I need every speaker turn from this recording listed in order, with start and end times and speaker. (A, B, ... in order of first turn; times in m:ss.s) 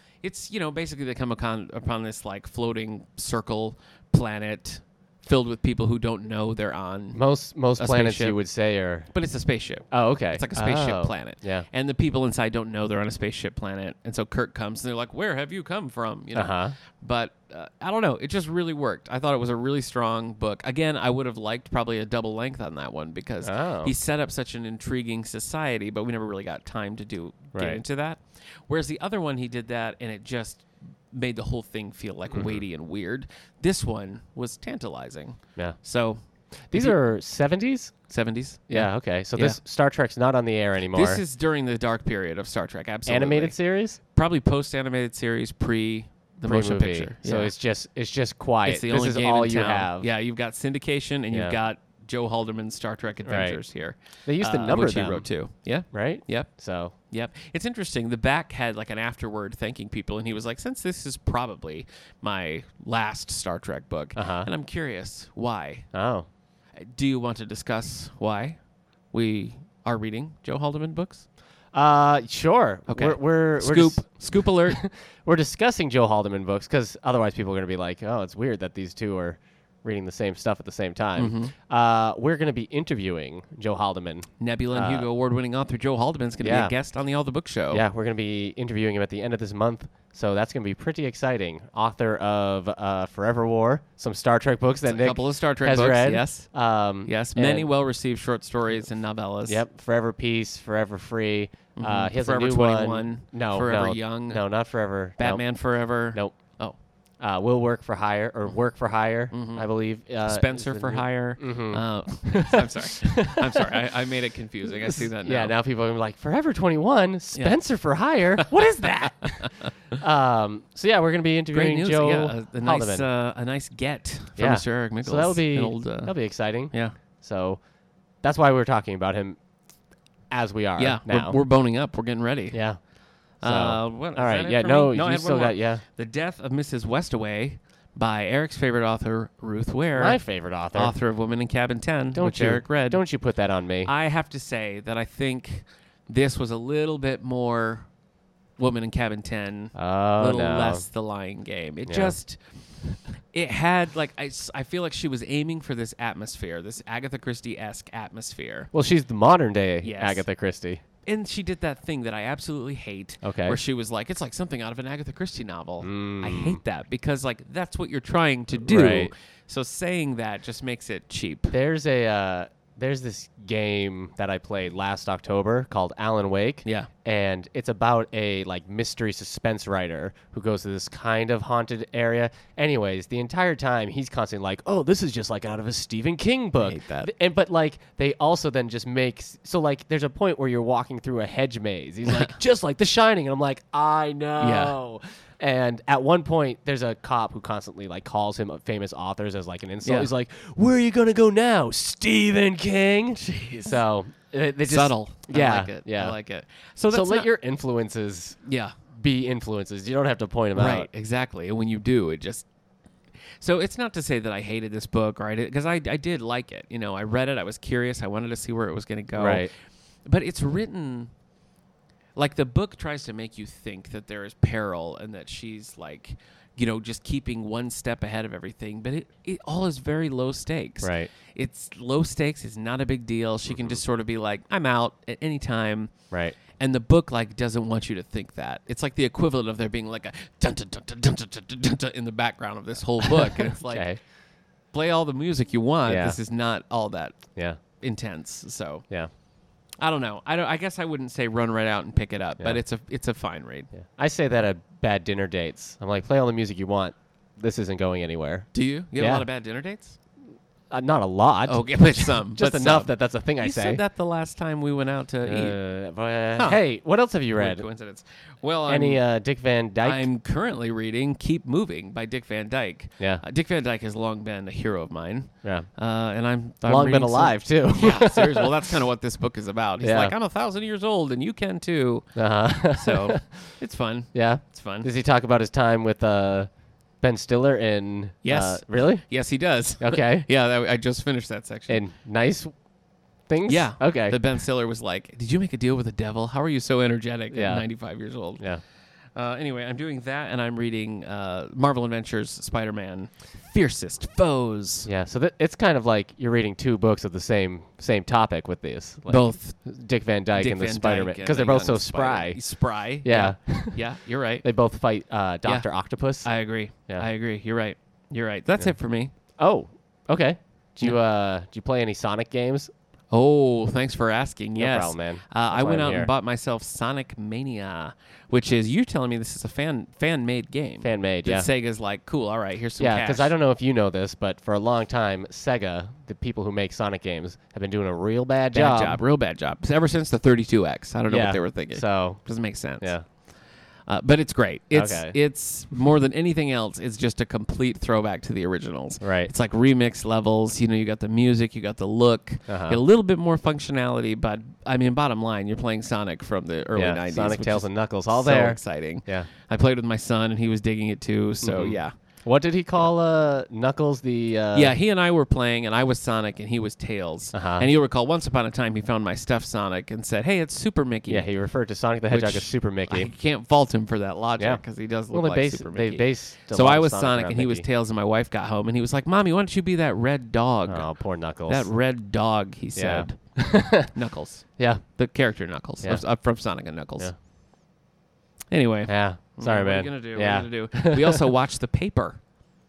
0:00.2-0:07.2 A
0:07.1-0:09.1 B
0:07.8-0:08.4 A
0:09.1-0:36.2 A
0:09.9-0:11.6 B
0:16.3-0:16.8 B
0:23.4-0:23.9 B
0:27.5-0:27.8 B
0:32.3-0:32.6 B
0:36.7-0:38.0 B
0:36.7-0:37.0 A
0:38.1-0:39.6 A
0:38.7-0:41.2 B
0:40.9-0:47.5 A
0:43.1-0:44.0 B
0:46.4-0:50.1 B
0:48.7-1:05.9 A
0:51.3-0:51.6 B
0:53.2-0:53.6 B
0:54.2-0:55.2 B
0:55.9-0:57.0 B
1:04.2-1:04.5 B
1:05.9-1:06.3 B
1:06.8-1:08.6 A
1:09.1-1:11.2 A
1:11.7-1:25.1 B
1:12.9-1:14.8 A
1:21.2-1:21.5 A
1:24.4-1:27.8 A
1:26.4-1:26.7 B
1:27.7-1:37.7 B
1:34.8-1:36.5 A
1:37.1-1:39.6 A
1:39.5-1:45.5 B
1:41.8-1:44.4 A
1:45.2-1:46.8 A
1:46.0-1:46.4 B
1:47.2-1:53.7 B
1:49.3-1:49.7 A
1:50.2-1:55.6 A
1:54.8-2:03.1 B
1:58.4-1:59.7 A
2:01.5-2:06.2 A
2:04.4-2:07.6 B
2:08.2-2:09.4 B
2:10.3-2:11.4 B
2:10.8-2:12.6 A
2:12.5-2:12.8 B
2:13.4-2:15.8 B
2:13.4-2:20.2 A
2:20.0-2:21.0 B
2:20.7-2:23.0 A
2:22.1-2:23.9 B
2:23.8-2:27.9 A
2:28.6-2:32.4 A
2:29.8-2:30.9 B
2:31.9-2:32.2 B
2:33.3-2:38.7 A
2:38.7-2:40.8 B
2:39.8-2:40.2 A
2:41.0-2:51.5 A
2:43.2-2:43.6 B
2:45.8-2:46.6 B
2:48.6-2:49.1 B
2:51.5-3:26.2 B
2:56.6-2:56.9 A
3:06.6-3:07.1 A
3:12.1-3:12.4 A
3:14.4-3:14.8 A
3:19.8-3:20.1 A
3:23.2-3:23.8 A
3:24.6-3:27.3 A
3:26.9-3:28.4 B
3:28.4-3:28.8 A
3:28.9-3:30.9 B
3:30.5-3:32.5 A
3:33.4-3:39.5 A
3:39.2-3:39.5 B
3:40.0-3:41.1 A
3:42.2-3:55.9 A
3:50.8-3:51.1 B
3:56.1-3:56.4 B
3:56.5-4:03.9 A
4:03.7-4:04.0 B
4:04.7-4:08.9 A
4:05.9-4:06.2 B
4:09.8-4:13.7 A
4:13.7-4:19.2 B
4:18.5-4:20.0 A
4:20.7-4:23.8 B
4:21.5-4:25.6 A
4:25.2-4:27.7 B
4:27.4-4:29.0 A
4:28.7-4:30.1 B
4:29.8-4:44.9 A
4:35.4-4:35.7 B
4:36.6-4:38.6 B
4:39.8-4:40.2 B
4:42.2-4:43.4 B
4:44.1-4:49.1 B
4:48.2-4:51.8 A
4:49.8-4:50.3 B
4:51.7-4:52.5 B
4:53.3-4:54.2 B
4:53.5-4:58.4 A
4:57.3-4:57.7 B
4:59.2-5:04.9 A
5:04.8-5:12.4 B
5:09.1-5:09.6 A
5:10.4-5:14.4 A
5:13.0-5:13.8 B
5:14.4-5:16.3 B
5:16.2-5:19.1 A
5:19.4-5:22.7 B
5:23.1-5:33.3 A
5:24.6-5:26.1 B
5:30.8-5:31.5 B
5:32.8-5:39.0 B
5:38.5-5:43.1 A
5:41.1-5:42.3 B
5:42.8-5:43.0 B
5:43.9-6:02.0 A
5:44.7-5:45.2 B
5:49.0-5:49.3 B
5:52.5-5:52.8 B
5:56.8-5:59.3 B
6:01.4-6:04.7 B
6:04.5-6:11.3 A
6:07.3-6:07.7 B
6:11.1-6:13.1 B
6:12.1-6:20.9 A
6:14.4-6:17.7 B
6:20.7-6:21.7 B
6:21.5-6:27.1 A
6:22.8-6:23.9 B
6:24.6-6:24.8 B
6:28.5-6:32.2 A
6:28.9-6:31.2 B